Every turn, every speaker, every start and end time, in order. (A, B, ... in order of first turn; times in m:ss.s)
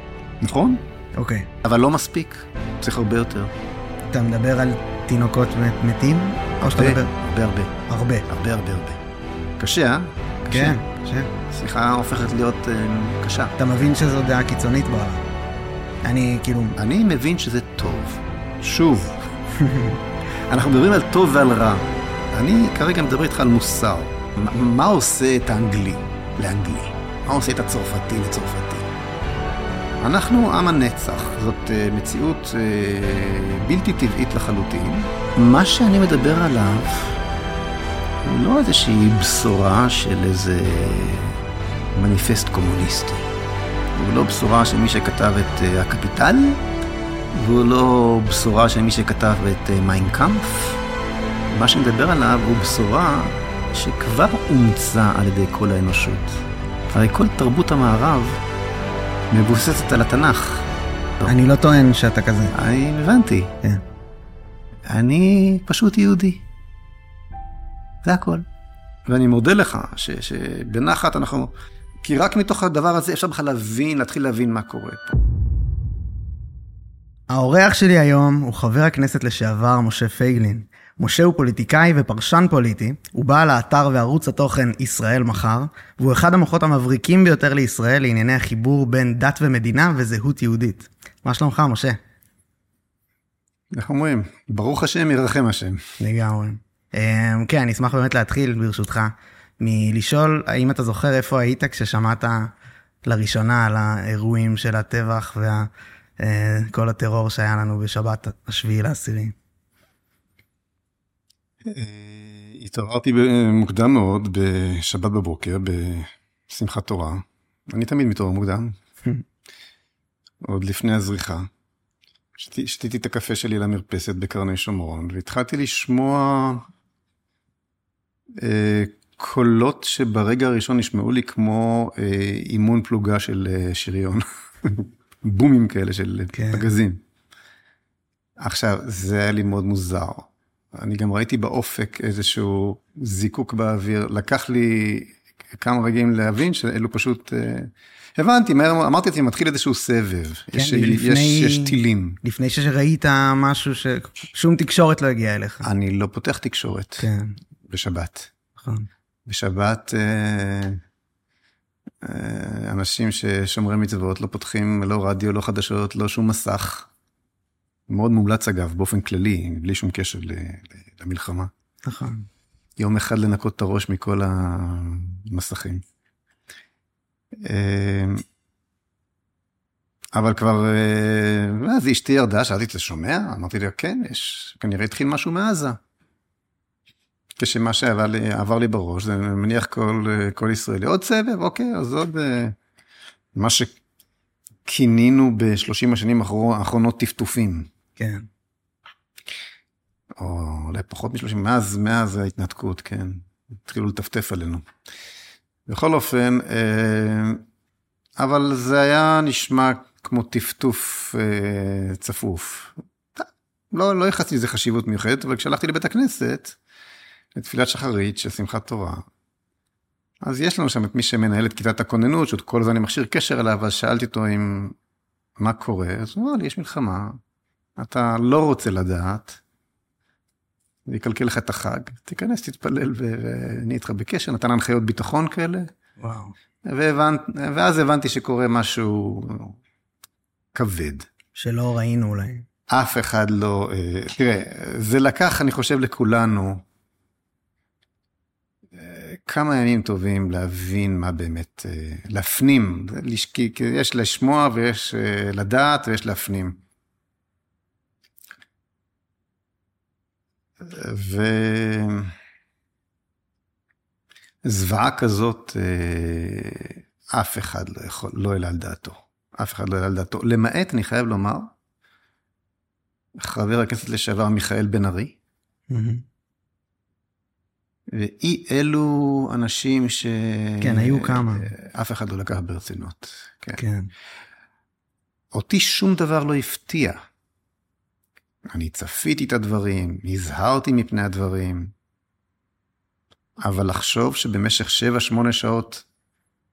0:00.4-0:00.8 A
0:01.1-0:01.5 B
0:01.6-0:03.5 A
0:04.1-0:07.1 B
0:06.6-0:09.0 A
0:07.9-0:08.3 B
0:09.6-0:10.8 A
0:10.5-0:11.3 B
0:11.4-0:13.5 A
0:13.6-0:15.3 B
0:16.0-0:16.8 B
0:16.8-0:19.2 A
0:19.6-0:20.0 B
0:20.5-0:28.9 A
0:30.0-0:37.2 A
0:38.2-0:41.4 A
0:42.0-0:43.3 A
0:44.0-0:46.6 A
0:47.3-0:50.8 A
0:51.5-0:58.4 A
0:59.3-1:00.7 A
1:01.3-1:02.5 B
1:02.5-1:03.5 A
1:04.9-1:06.4 A
1:08.0-1:08.4 A
1:09.1-1:11.5 A
1:12.0-1:15.2 A
1:17.3-1:32.0 B
1:33.7-1:36.0 A
1:36.0-1:42.5 B
1:43.0-1:49.4 B
1:51.6-1:58.7 A
2:00.4-2:01.5 A
2:02.4-2:06.7 A
2:08.4-2:17.0 A
2:16.3-2:16.6 B
2:18.4-2:32.2 A
2:30.5-2:35.6 B
2:35.6-2:37.1 A
2:37.0-2:37.3 B
2:37.7-2:38.3 A
2:38.6-2:38.9 B
2:39.3-2:40.8 A
2:42.0-2:46.9 A
2:47.9-2:51.5 A
2:51.8-2:52.2 B
2:52.8-2:55.8 A
2:57.4-2:58.2 A
3:00.1-3:05.8 A
3:07.4-3:12.6 A
3:13.4-3:13.7 A
3:14.7-3:17.7 A
3:18.0-3:18.3 B
3:20.2-3:24.7 A
3:25.7-3:27.4 A
3:28.2-3:36.6 A
3:37.4-3:39.0 A
3:40.2-3:44.7 A
3:45.4-3:47.2 A
3:47.8-3:49.4 A
3:50.9-3:55.7 A
3:56.0-3:56.3 B
3:56.7-3:59.6 A
4:00.6-4:01.1 A
4:01.4-4:02.4 B
4:02.7-4:06.6 A
4:08.8-4:16.6 A
4:20.6-4:22.1 A
4:24.4-4:31.5 A
4:33.2-4:35.2 A
4:35.7-4:36.0 B
4:37.9-4:43.6 A
4:40.6-4:41.5 B
4:43.6-4:43.9 B
4:45.3-4:47.0 A
4:48.5-4:51.7 A
4:53.4-4:55.8 A